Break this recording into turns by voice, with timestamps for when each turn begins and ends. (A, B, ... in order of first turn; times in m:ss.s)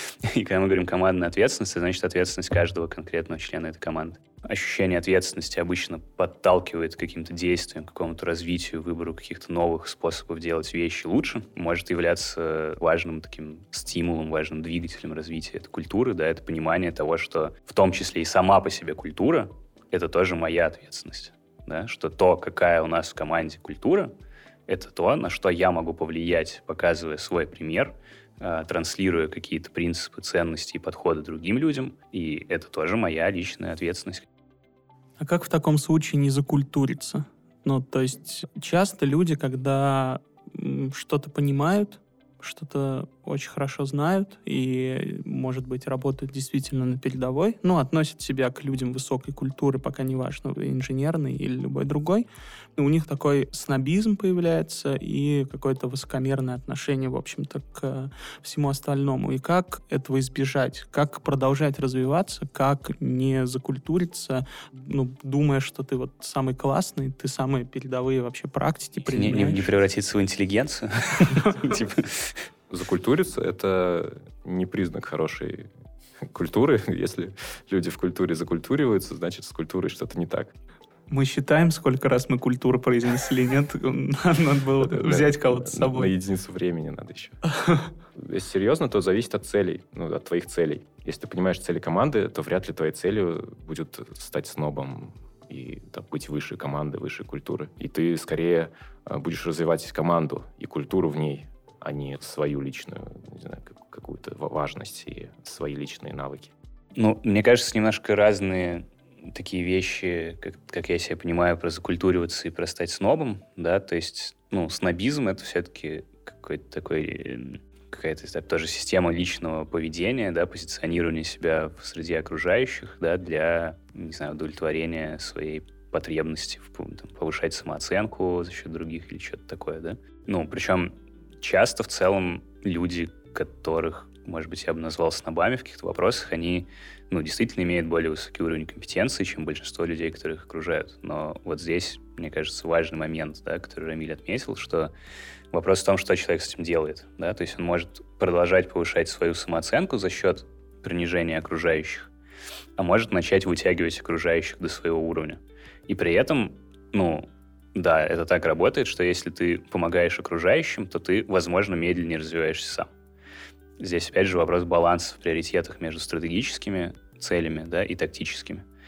0:00.2-0:24.1 A
0:24.7-0:34.3 A
0:35.2-1:09.6 B
1:09.1-1:12.4 A
1:12.7-1:15.7 C
1:16.2-1:20.5 C
1:21.1-1:26.1 B
1:24.8-1:27.4 C
1:27.5-1:27.9 B
1:28.2-1:46.5 C
1:47.0-2:24.9 A
2:25.5-2:32.1 A
2:32.8-2:42.9 A
2:43.8-2:48.6 A